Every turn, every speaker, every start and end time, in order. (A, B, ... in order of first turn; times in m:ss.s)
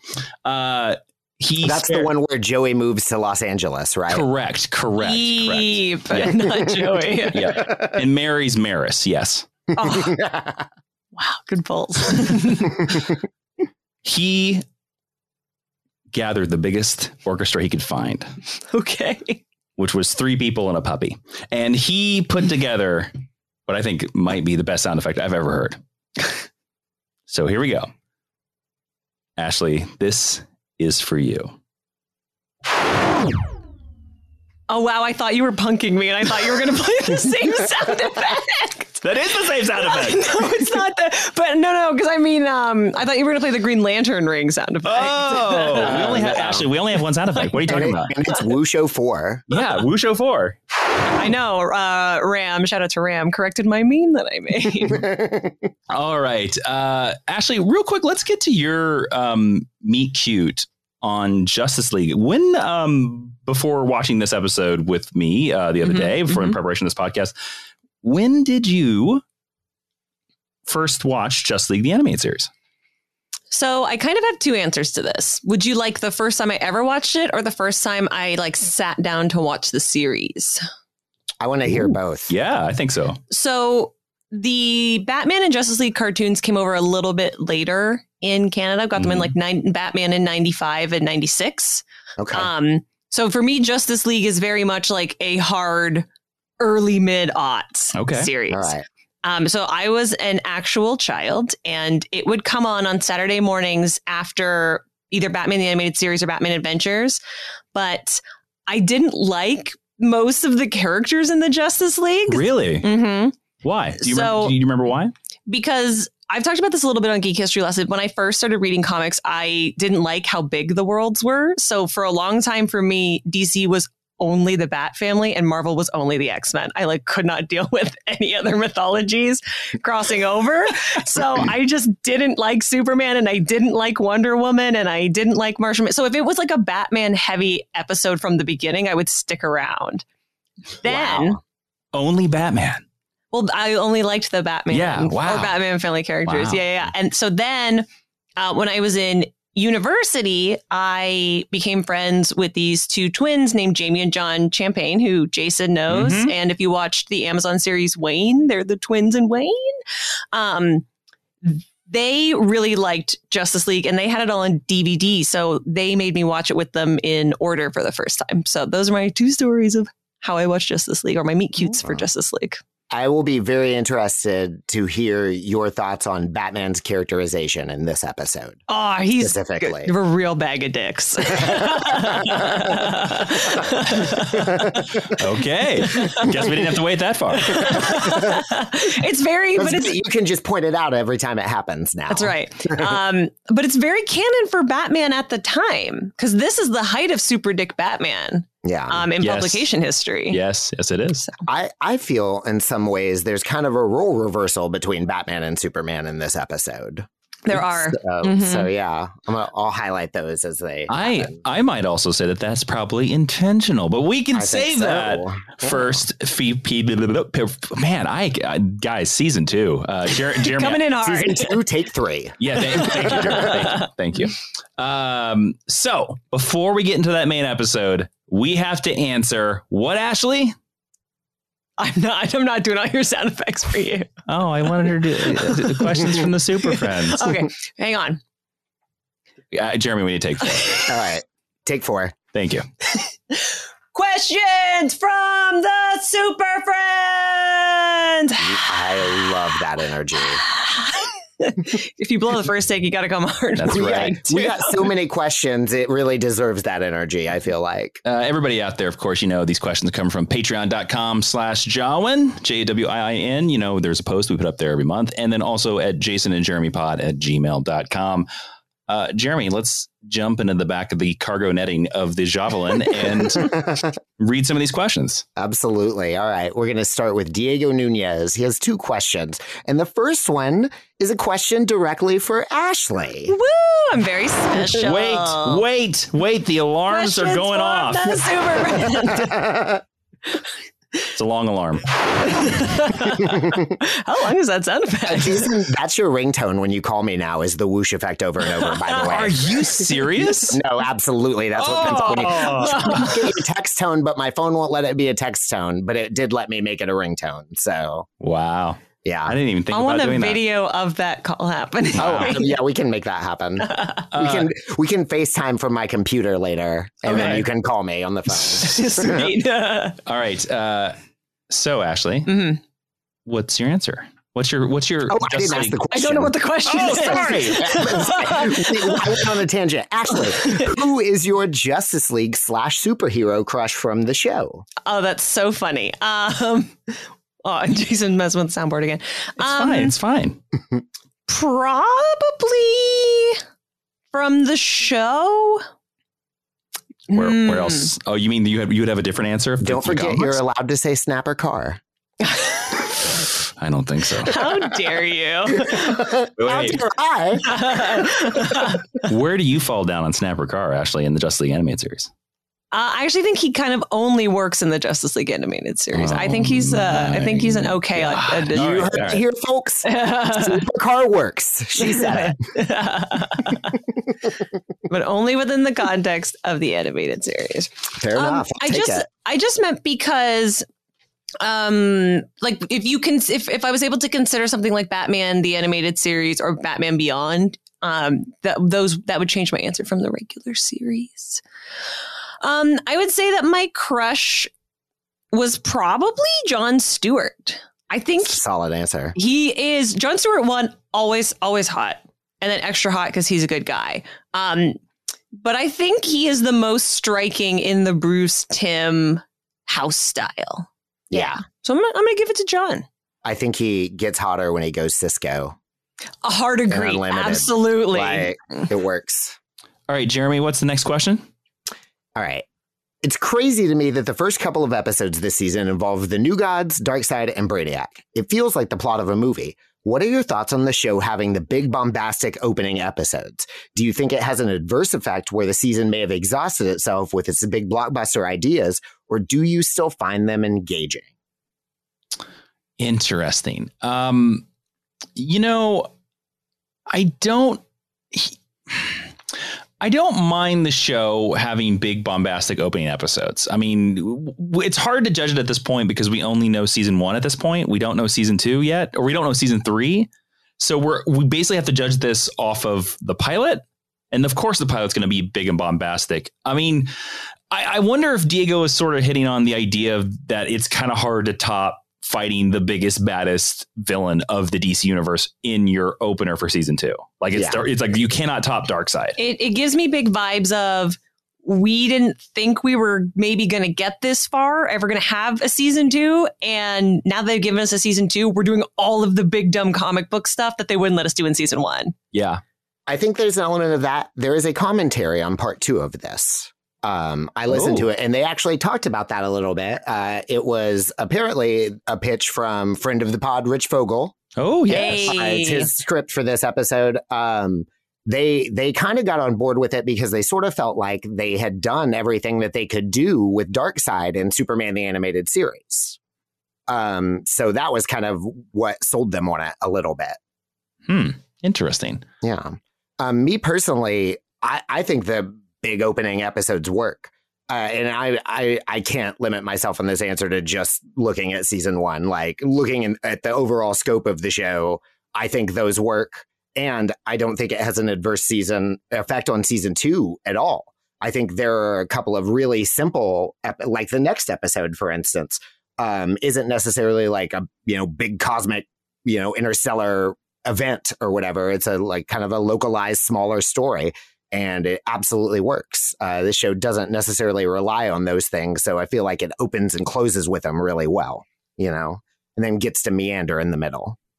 0:00.4-0:02.1 A
0:01.6-0:04.2 B
0:04.1-0:06.4 A
0:05.0-0:07.5 C
0:07.3-0:09.5 A
0:09.8-0:10.2 C
0:09.8-0:10.6 B
0:11.2-0:12.9 C
0:14.0-0:14.6 A
0:16.1-0:18.3 A
0:18.7-0:19.4 C
0:19.8-0:23.1 A
0:23.7-0:25.8 A
0:27.3-0:27.9 A
0:29.4-0:31.5 A
0:34.7-0:39.1 C
0:39.0-0:40.3 A
0:39.8-0:46.4 C
0:44.8-0:48.1 A
0:45.8-0:46.7 B
0:47.7-0:49.4 B
0:49.5-0:50.6 A
0:51.1-0:55.0 C
0:54.9-0:55.7 B
0:55.9-1:07.3 A
1:05.8-1:06.6 C
1:08.0-1:09.2 A
1:10.7-1:12.5 A
1:13.5-1:20.6 C
1:21.4-1:22.3 B
1:21.7-1:23.2 A
1:23.3-1:36.0 C
1:29.0-1:29.3 A
1:32.2-1:32.5 B
1:36.6-1:38.7 C
1:37.9-1:38.3 A
1:38.5-1:38.8 B
1:39.2-1:47.2 C
1:47.7-1:53.4 C
1:52.3-1:52.9 A
1:53.6-1:55.1 A
1:54.0-1:54.5 C
1:55.5-2:20.0 C
2:20.8-2:21.4 C
2:20.8-2:21.4 B
2:21.9-2:22.8 A
2:23.3-2:27.8 C
2:24.7-2:25.6 A
2:26.2-2:26.6 A
2:28.4-2:39.7 C
2:35.9-2:36.3 A
2:40.3-2:40.8 C
2:41.4-2:52.6 C
2:51.6-2:52.0 B
2:52.9-2:58.6 B
2:58.7-3:04.8 C
2:59.2-2:59.9 B
3:01.4-3:02.0 B
3:05.1-3:07.9 A
3:05.9-3:06.3 C
3:07.4-3:10.0 C
3:09.6-3:12.9 B
3:12.1-3:20.4 C
3:18.6-3:19.2 B
3:19.2-3:19.6 A
3:20.3-3:21.3 A
3:21.5-3:31.4 B
3:27.4-3:28.7 C
3:30.9-3:40.8 A
3:34.3-3:36.0 B
3:40.4-3:41.6 C
3:41.0-3:43.3 B
3:42.4-3:50.5 A
3:42.8-3:43.9 C
3:51.8-3:54.1 C
3:54.3-3:57.4 A
3:55.4-3:58.2 C
3:59.5-4:00.9 A
4:00.9-4:02.2 B
4:02.3-4:02.6 A
4:02.9-4:08.6 C
4:08.4-4:10.4 B
4:10.4-4:14.7 C
4:13.6-4:14.1 A
4:13.7-4:18.0 B
4:18.0-4:28.2 A
4:28.9-4:33.6 A
4:33.4-4:33.8 B
4:34.2-4:35.2 A
4:35.4-4:43.3 B
4:43.3-4:45.6 C
4:44.7-4:48.2 A
4:46.9-4:49.5 C
4:49.2-4:49.8 B
4:51.1-4:51.8 A
4:52.2-4:55.5 C
4:55.0-4:59.5 B
4:58.5-4:59.2 C
4:59.1-5:00.6 A
5:00.5-5:08.1 B
5:01.6-5:03.1 A
5:01.6-5:03.2 C
5:08.2-5:10.4 A
5:09.0-5:09.3 B
5:09.7-5:12.5 C
5:11.9-5:12.3 A
5:12.0-5:19.1 B
5:13.7-5:14.0 C
5:14.1-5:14.5 A
5:17.0-5:17.4 C
5:17.1-5:17.4 A
5:18.6-5:20.0 C
5:20.0-5:21.0 A
5:21.5-5:22.3 A
5:22.3-5:22.6 C
5:23.2-5:25.8 A
5:25.1-5:34.6 B
5:25.9-5:29.2 C
5:26.6-5:28.0 A
5:30.1-5:30.7 C
5:34.8-5:40.0 C
5:39.4-5:40.4 A
5:41.3-5:43.4 C
5:44.1-5:45.6 C
5:47.1-5:47.9 C
5:47.1-5:50.4 A
5:49.6-5:51.8 B
5:52.2-5:52.8 C
5:53.6-5:54.3 A
5:54.2-5:56.1 C
5:55.7-5:57.9 B
5:56.4-5:56.8 A
5:57.4-5:59.0 C
5:59.0-6:02.1 A
6:02.7-6:08.9 C
6:05.9-6:09.2 A
6:08.5-6:12.4 B
6:09.8-6:10.6 C
6:11.8-6:13.8 C
6:14.9-6:20.6 C
6:18.0-6:19.0 B
6:21.4-6:31.4 C
6:32.4-6:34.5 C
6:35.3-6:38.4 C
6:38.2-6:39.1 B
6:39.1-6:44.8 C
6:45.3-6:52.8 C
6:51.1-6:51.4 B
6:53.2-6:55.6 B
6:56.2-6:58.7 C
6:56.7-6:59.4 B
6:59.9-7:01.2 A
7:02.1-7:02.4 B
7:03.0-7:21.1 B
7:22.8-7:24.4 A
7:25.2-7:25.9 A
7:26.9-7:27.6 A
7:28.1-7:29.0 A
7:29.8-7:46.9 A
7:47.5-7:59.2 A
7:57.3-7:57.6 B
7:59.2-8:11.9 C
8:12.1-8:12.4 A
8:12.9-8:24.2 B
8:17.5-8:17.9 A
8:24.4-8:25.1 A
8:24.7-8:25.7 C
8:24.7-8:36.0 B
8:36.7-8:40.2 B
8:40.9-8:42.0 A
8:42.2-9:24.0 B